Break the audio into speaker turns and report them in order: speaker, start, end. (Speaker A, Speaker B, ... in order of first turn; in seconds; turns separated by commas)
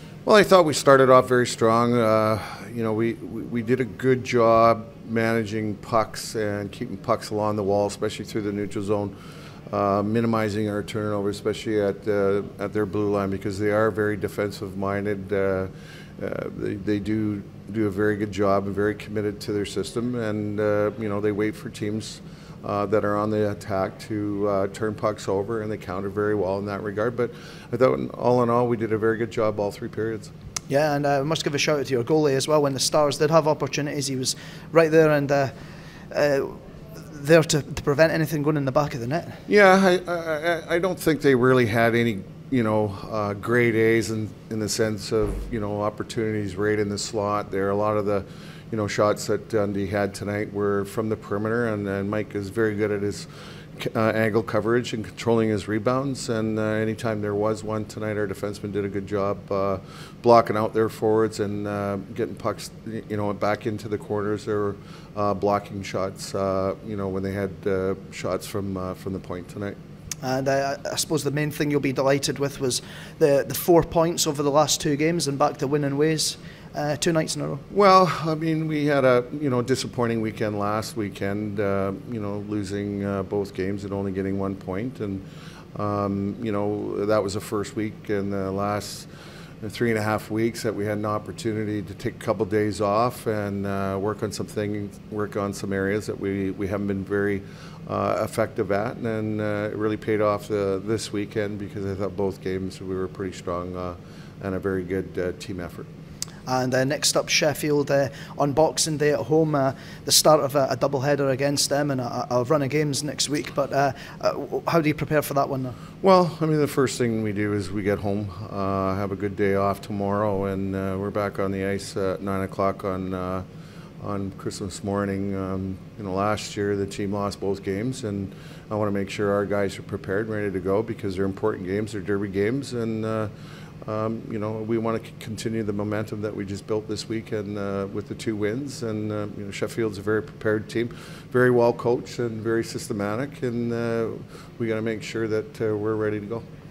Speaker A: 0.2-9.1, Speaker A: 9.7-30.3, Speaker B: 30.7-35.5, Speaker B: 36.1-39.4, Speaker A: 39.5-69.8, Speaker B: 70.2-77.6, Speaker A: 77.7-85.2, Speaker A: 85.7-89.1, Speaker A: 89.6-105.9, Speaker B: 106.5-115.8, Speaker A: 116.0-123.4, Speaker A: 124.0-133.3, Speaker A: 133.8-146.4